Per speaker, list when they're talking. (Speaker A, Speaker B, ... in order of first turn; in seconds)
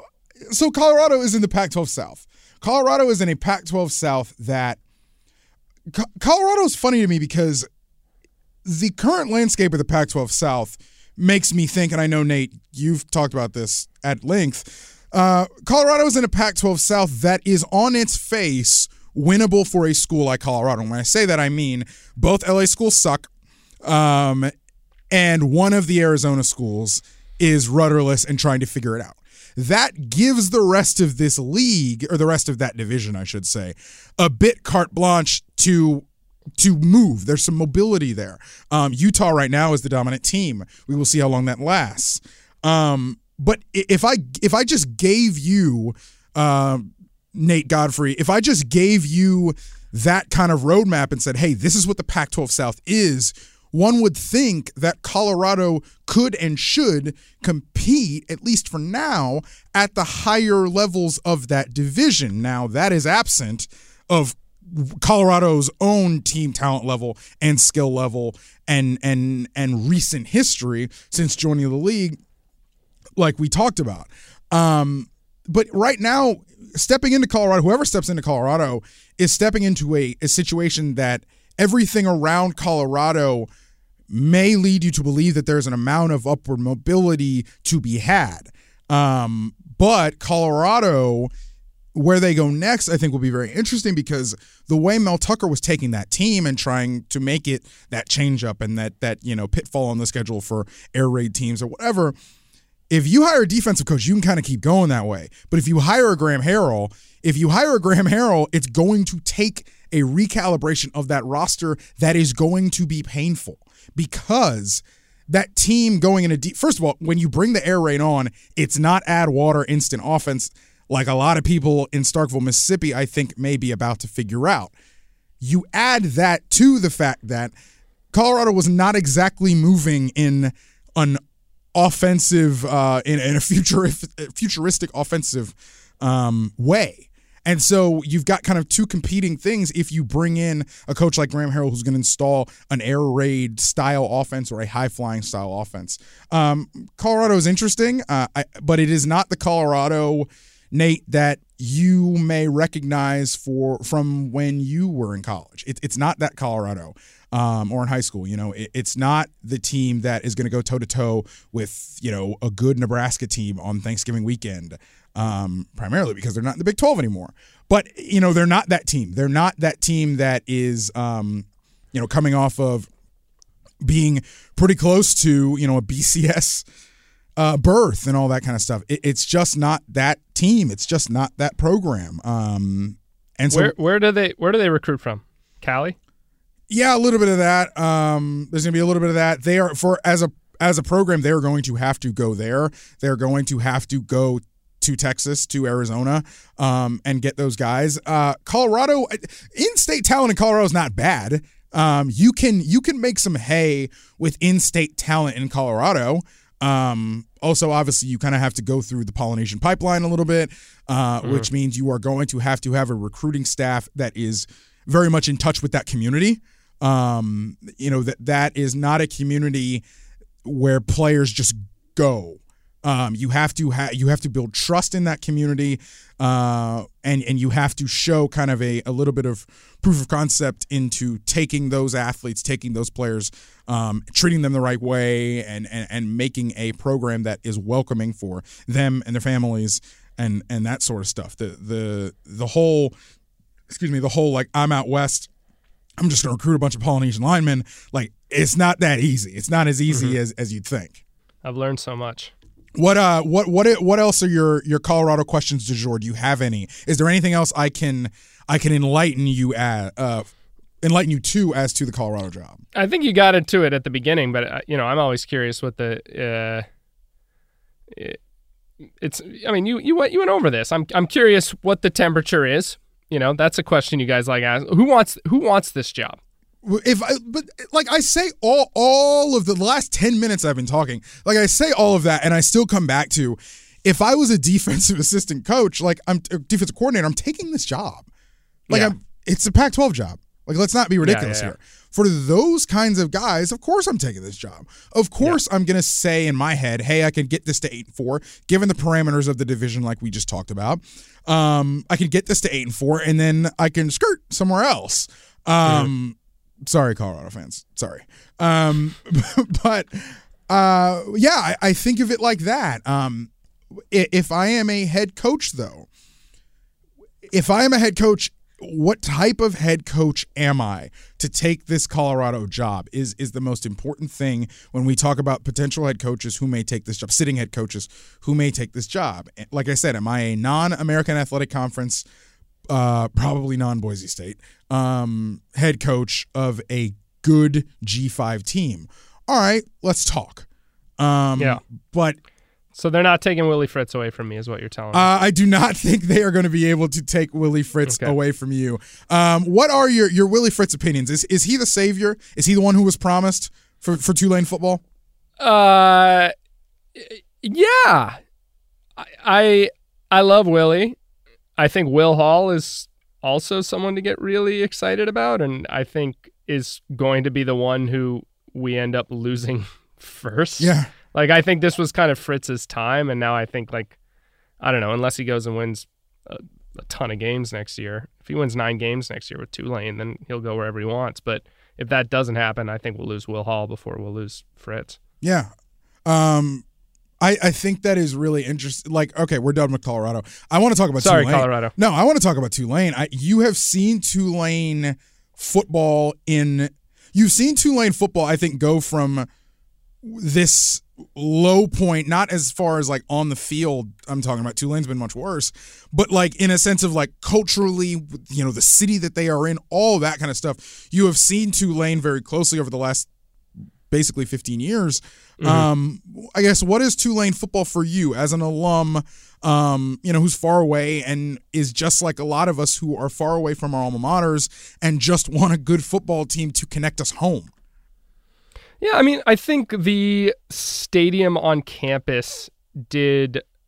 Speaker A: 0.5-4.8, 5.9-7.7, 8.7-23.3, 23.8-24.5, 25.1-36.0, 36.6-72.2, 73.2-83.5, 84.1-91.3, 91.9-102.1, 102.9-124.7, 125.4-127.5, 128.1-131.2, 131.7-172.9, 173.8-176.6, 177.4-183.7, 186.7-219.8, 220.4-242.9, 243.7-245.3, 246.0-251.0, 252.8-260.2, 260.8-262.6, 276.6-288.1, 288.7-313.3, 313.9-315.9, 317.3-332.0, 332.7-340.4, 341.0-342.2, 344.9-354.8, 370.6-370.9, 385.2-385.5, 386.1-386.6, 387.2-399.3, 400.0-413.1, 413.9-427.5
Speaker B: 183.5-185.9, 211.2-211.5, 249.9-250.2, 251.4-252.3, 262.7-266.6, 267.9-268.2, 269.0-276.2, 288.7-288.9, 291.0-291.5, 305.6-305.9, 342.7-345.1, 347.9-348.1, 355.4-356.3, 356.9-358.2, 359.0-360.9, 361.6-373.9, 374.6-385.0, 391.0-391.7, 415.4-415.7, 428.8-433.4